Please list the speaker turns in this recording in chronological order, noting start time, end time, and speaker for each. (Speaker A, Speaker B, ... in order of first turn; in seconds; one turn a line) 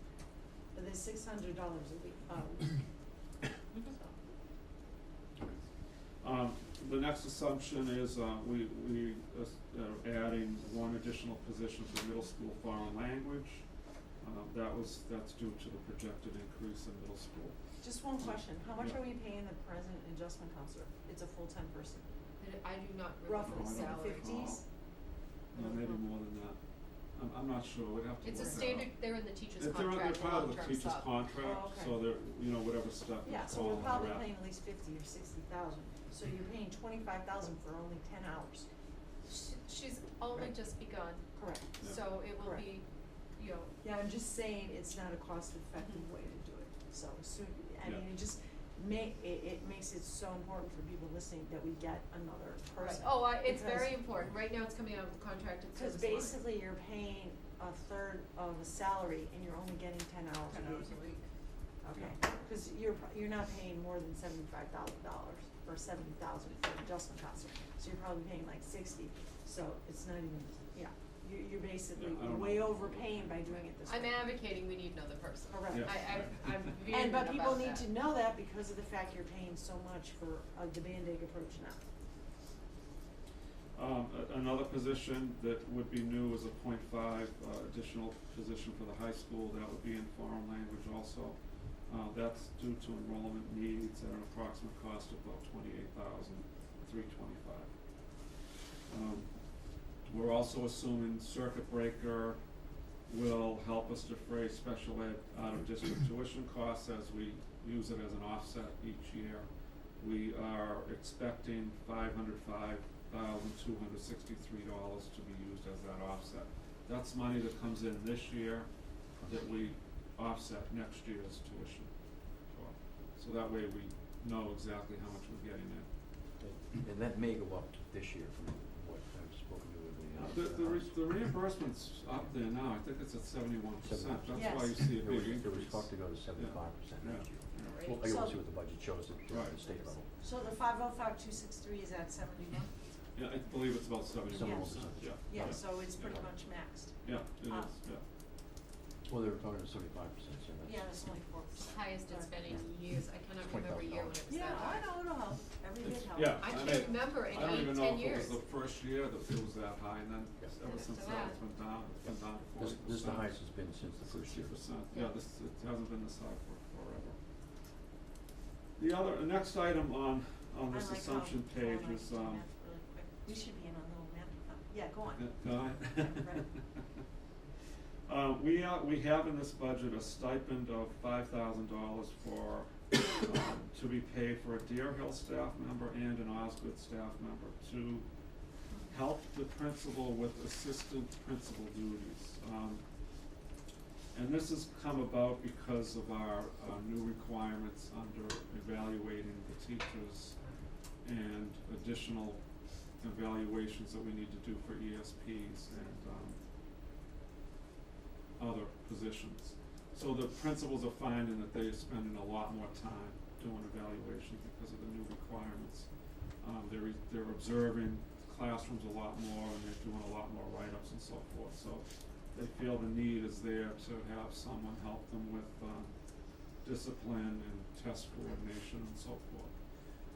Speaker A: 0.7-2.8
Speaker B: 6.2-13.7
Speaker B: 14.2-17.6
Speaker A: 17.8-22.1
Speaker B: 18.2-19.1
Speaker C: 22.4-24.5
Speaker A: 23.2-24.6
Speaker B: 23.4-24.6
Speaker B: 25.5-26.6
Speaker A: 25.6-26.0
Speaker B: 27.1-34.4
Speaker C: 28.2-31.1
Speaker A: 31.4-32.0
Speaker A: 33.2-38.7
Speaker C: 39.2-41.3
Speaker A: 41.4-41.8
Speaker C: 41.8-42.9
Speaker A: 42.4-42.7
Speaker C: 43.4-43.7
Speaker A: 43.8-54.0
Speaker B: 47.8-48.1
Speaker C: 52.8-56.5
Speaker A: 55.7-60.9
Speaker C: 60.5-61.2
Speaker A: 61.8-74.2
Speaker B: 71.9-73.6
Speaker C: 73.8-77.9
Speaker A: 75.5-76.3
Speaker B: 75.7-76.8
Speaker A: 76.9-81.8
Speaker B: 83.7-97.7
Speaker B: 98.9-99.3
Speaker B: 100.0-102.4
Speaker B: 103.1-121.9
Speaker D: 119.2-119.4
Speaker B: 122.5-125.9
Speaker D: 126.4-131.3
Speaker B: 130.1-137.9
Speaker D: 133.8-140.1
Speaker A: 134.3-134.8
Speaker A: 137.7-138.4
Speaker B: 139.3-139.6
Speaker A: 140.2-142.7
Speaker B: 143.2-146.3
Speaker D: 144.3-145.6
Speaker A: 144.4-146.9
Speaker B: 147.0-148.0
Speaker D: 149.1-150.9
Speaker A: 150.7-152.3
Speaker C: 151.6-154.9
Speaker D: 152.5-154.2
Speaker A: 154.3-157.0
Speaker B: 155.8-163.4
Speaker C: 156.4-158.4
Speaker C: 160.6-161.4
Speaker D: 162.0-164.6
Speaker B: 164.0-167.2
Speaker B: 168.8-172.4
Speaker A: 170.7-176.5
Speaker B: 175.2-176.8
Speaker B: 178.1-188.1
Speaker B: 188.9-192.8
Speaker B: 194.1-200.4
Speaker B: 201.0-202.4
Speaker B: 203.0-206.4
Speaker B: 208.4-215.9
Speaker B: 216.4-225.9
Speaker B: 226.6-229.5